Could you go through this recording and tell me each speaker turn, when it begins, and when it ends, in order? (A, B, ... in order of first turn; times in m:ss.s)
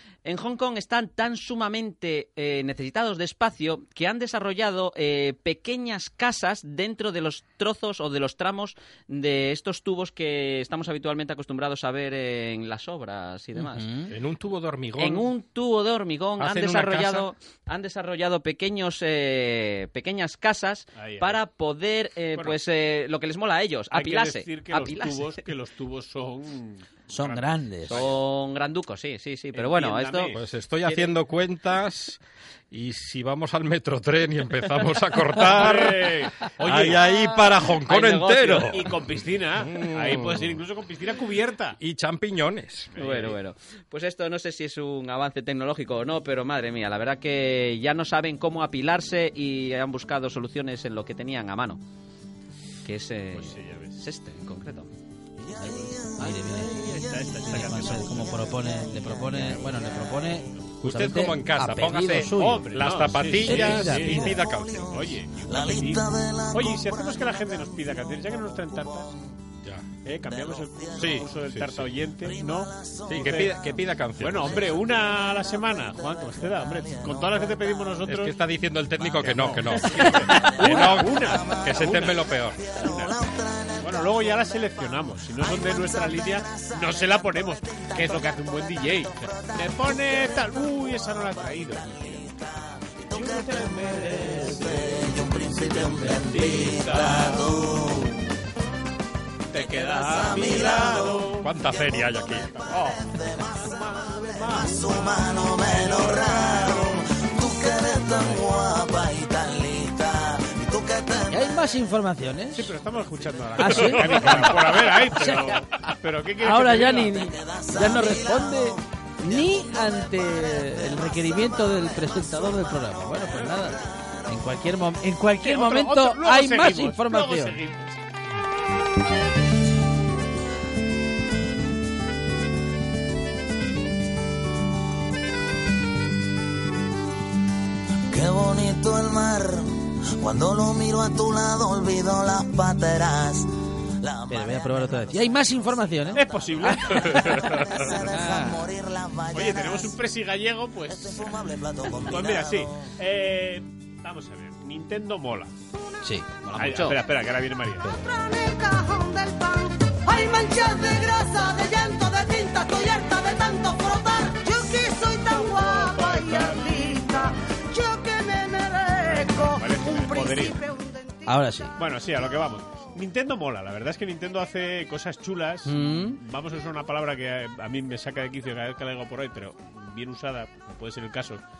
0:00.2-0:13.9 A
0:13.6-0:14.1 B
0:14.1-0:15.3 C
0:15.0-0:25.4 A
0:16.4-0:17.3 C
0:21.0-0:21.4 D
0:22.4-0:22.6 D
0:23.9-0:28.2 D
0:27.1-0:28.0 B
0:27.9-0:31.1 A
0:29.5-0:30.4 D
0:30.3-0:32.2 C
0:32.7-0:40.6 C
0:35.4-0:37.2 D
0:37.8-0:38.7 A
0:38.5-0:41.8 D
0:41.8-0:42.9 C
0:42.9-0:43.4 D
0:43.0-0:51.8 A
0:52.8-0:54.9 A
0:53.3-0:54.0 D
0:55.5-0:56.3 E
0:55.6-1:02.8 B
0:56.2-1:00.4 D
0:56.9-0:57.1 E
1:00.8-1:04.9 C
1:02.3-1:09.1 D
1:03.4-1:04.4 B
1:04.4-1:09.2 E
1:10.0-1:13.6 D
1:10.2-1:11.1 E
1:10.9-1:11.9 C
1:12.2-1:13.3 E
1:13.1-1:14.8 C
1:14.2-1:18.4 D
1:15.8-1:17.8 E
1:18.1-1:22.6 C
1:19.0-1:23.2 D
1:20.3-1:24.7 E
1:23.8-1:32.2 D
1:25.4-1:38.2 E
1:33.1-1:37.8 D
1:39.5-1:47.0 D
1:39.6-1:41.9 E
1:41.4-1:42.7 C
1:42.7-1:51.6 E
1:51.3-1:52.8 B
1:52.5-1:57.2 D
1:53.6-1:55.7 B
1:56.4-2:07.6 B
1:57.1-2:04.5 E
2:05.4-2:08.0 D
2:18.1-2:23.5 E
2:24.0-2:30.0 E
2:24.3-2:27.4 B
2:26.1-2:27.6 D
2:28.0-2:28.7 B
2:29.3-2:31.3 D
2:30.9-2:32.9 E
2:31.9-2:35.5 D
2:36.0-2:36.4 B
2:36.4-2:37.0 A
2:36.5-2:37.9 D
2:37.8-2:38.1 B
2:38.0-2:51.4 F
2:45.8-2:46.6 D
2:49.1-2:50.6 D
2:51.2-2:51.8 B
2:51.8-3:01.4 D
2:55.6-2:56.2 B